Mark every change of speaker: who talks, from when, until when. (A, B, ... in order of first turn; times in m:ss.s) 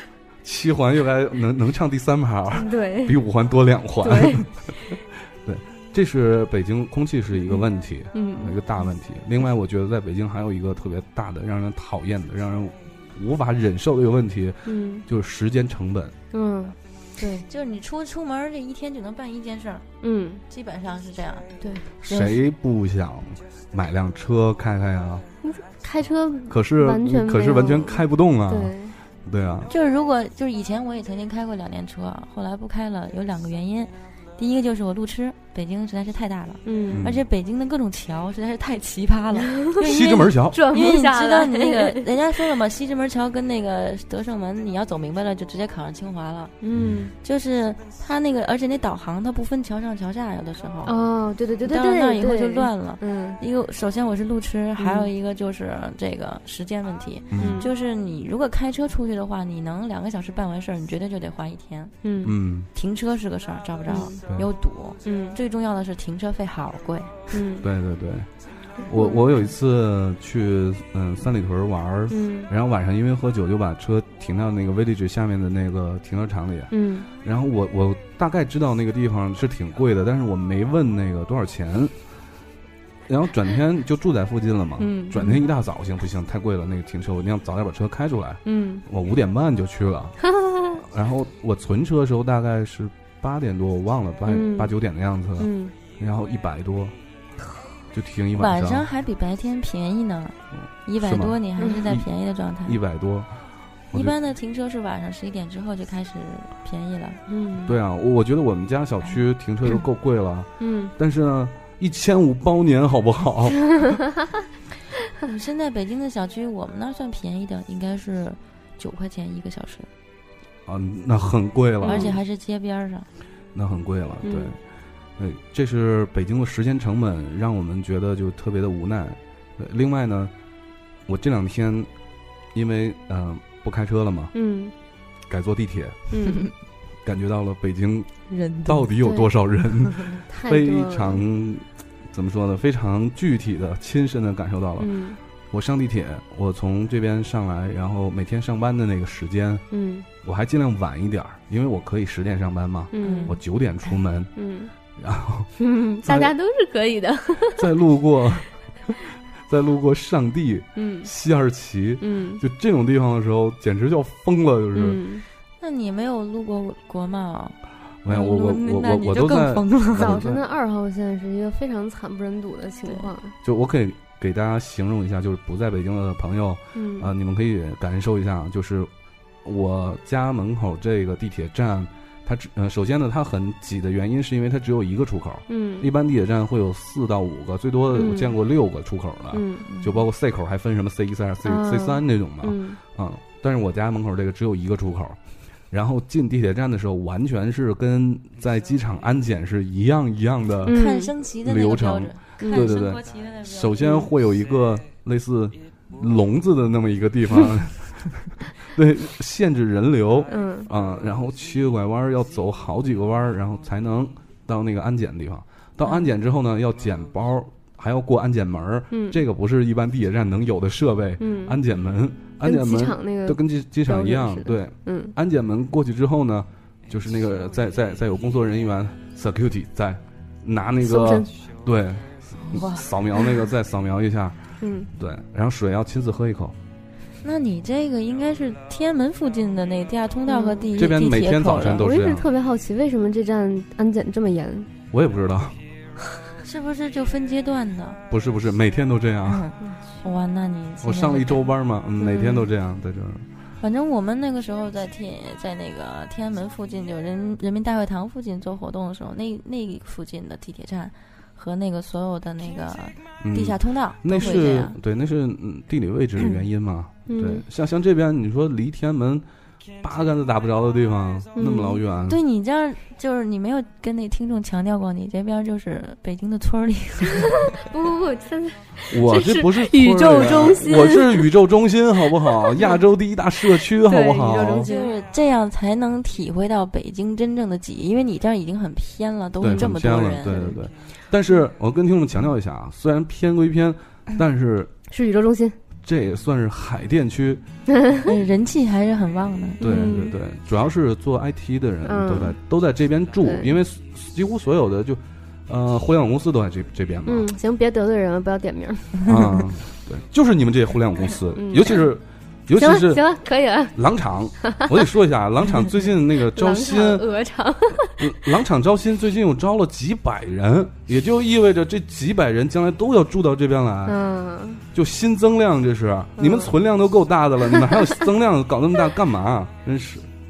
0:00.4-0:16.2 A
0:02.5-0:03.2 B
0:04.0-0:04.4 B
0:08.1-0:08.6 B
0:14.7-0:15.0 B
0:16.3-0:17.4 B
0:17.2-0:19.9 C
0:20.0-0:20.4 B
0:20.5-0:21.5 C
0:21.6-0:21.9 B
0:22.0-0:25.2 A
0:22.1-0:22.4 C
0:25.4-0:29.0 B
0:26.5-0:29.7 A
0:29.7-0:46.5 C
0:36.6-0:37.1 B
0:36.9-0:37.2 A
0:39.8-0:40.6 A
0:40.5-0:42.1 B
0:46.6-0:47.1 B
0:46.7-0:47.0 A
0:47.2-0:51.0 C
0:50.8-0:53.4 B
0:51.7-1:02.0 C
0:54.8-0:55.1 B
0:57.3-0:57.7 A
0:57.4-0:57.7 B
1:02.0-1:02.4 B
1:02.2-1:02.7 A
1:02.7-1:07.3 C
1:03.9-1:04.2 B
1:05.0-1:05.4 B
1:07.3-1:07.7 B
1:07.6-1:21.9 A
1:08.8-1:09.2 B
1:12.1-1:12.5 B
1:16.7-1:17.1 B
1:23.1-1:37.0 A
1:24.8-1:25.4 B
1:28.4-1:28.8 B
1:30.5-1:30.8 B
1:34.3-1:34.7 B
1:35.4-1:35.7 B
1:37.9-1:38.9 A
1:38.4-1:42.8 C
1:40.6-1:42.1 A
1:41.6-1:41.8 B
1:42.6-1:43.3 A
1:43.9-1:47.2 C
1:47.3-1:47.8 B
1:47.6-1:54.0 A
1:50.6-1:50.9 B
1:55.2-1:59.9 C
2:00.7-2:02.2 A
2:01.8-2:02.2 B
2:01.8-2:03.1 C
2:03.5-2:04.6 A
2:04.2-2:04.5 B
2:05.2-2:10.3 A
2:11.1-2:11.9 A
2:12.5-2:14.3 A
2:14.3-2:14.7 B
2:15.3-2:16.0 A
2:16.1-2:16.4 B
2:17.0-2:29.7 A
2:18.3-2:18.9 C
2:19.0-2:19.3 B
2:20.2-2:21.2 B
2:24.8-2:25.2 B
2:29.7-2:30.1 B
2:30.2-2:34.3 A
2:32.9-2:33.4 B
2:33.0-2:33.4 C
2:34.4-2:34.7 B
2:34.9-2:36.3 A
2:35.6-2:37.7 B
2:37.6-2:39.0 A
2:39.5-2:45.0 A
2:40.8-2:41.1 B
2:42.0-2:42.4 B
2:44.7-2:45.2 B
2:45.6-2:47.6 C
2:48.0-2:50.4 A
2:48.1-2:50.2 C
2:50.0-2:53.4 B
2:53.4-2:58.9 A
2:56.8-2:57.1 B
2:59.4-3:15.2 A
3:05.5-3:05.9 B
3:07.9-3:08.4 B
3:09.3-3:09.6 B
3:09.7-3:10.0 C
3:11.4-3:12.8 B
3:15.7-3:20.8 A
3:20.6-3:21.1 B
3:20.7-3:24.0 C
3:21.4-3:56.6 A
3:22.4-3:22.8 B
3:30.3-3:30.7 B
3:38.9-3:39.2 B
3:41.2-3:41.6 B
3:42.4-3:45.1 B
3:50.8-3:51.3 B
3:52.4-3:52.9 C
3:54.6-3:54.9 B
3:57.2-4:01.9 C
4:00.3-4:00.7 B
4:00.7-4:02.3 A
4:01.7-4:04.7 B
4:04.9-4:05.6 A
4:06.4-4:08.0 C
4:08.1-4:09.5 A
4:09.3-4:11.5 C
4:10.8-4:13.2 A
4:12.0-4:12.5 B
4:13.6-4:24.8 C
4:23.2-4:29.3 A
4:27.1-4:27.4 B
4:29.8-4:32.2 A
4:31.4-4:31.8 B
4:32.1-4:37.5 C
4:37.5-4:41.3 B
4:38.9-4:44.7 A
4:42.4-4:42.8 B
4:43.8-4:45.0 B
4:44.6-4:50.6 C
4:49.4-4:54.7 A
4:54.9-4:55.6 B
4:55.8-4:57.4 A
4:58.0-4:59.9 C
4:59.6-5:00.1 B
4:59.6-5:07.3 A
5:01.8-5:02.4 B
5:03.2-5:03.6 B
5:07.1-5:09.2 B
5:09.0-5:13.0 A
5:11.4-5:11.9 B
5:12.6-5:13.8 B
5:13.7-5:17.1 A
5:14.5-5:14.8 B
5:16.1-5:18.1 B
5:18.0-5:24.0 A
5:23.9-5:24.6 B
5:24.7-5:30.1 A
5:26.2-5:26.5 B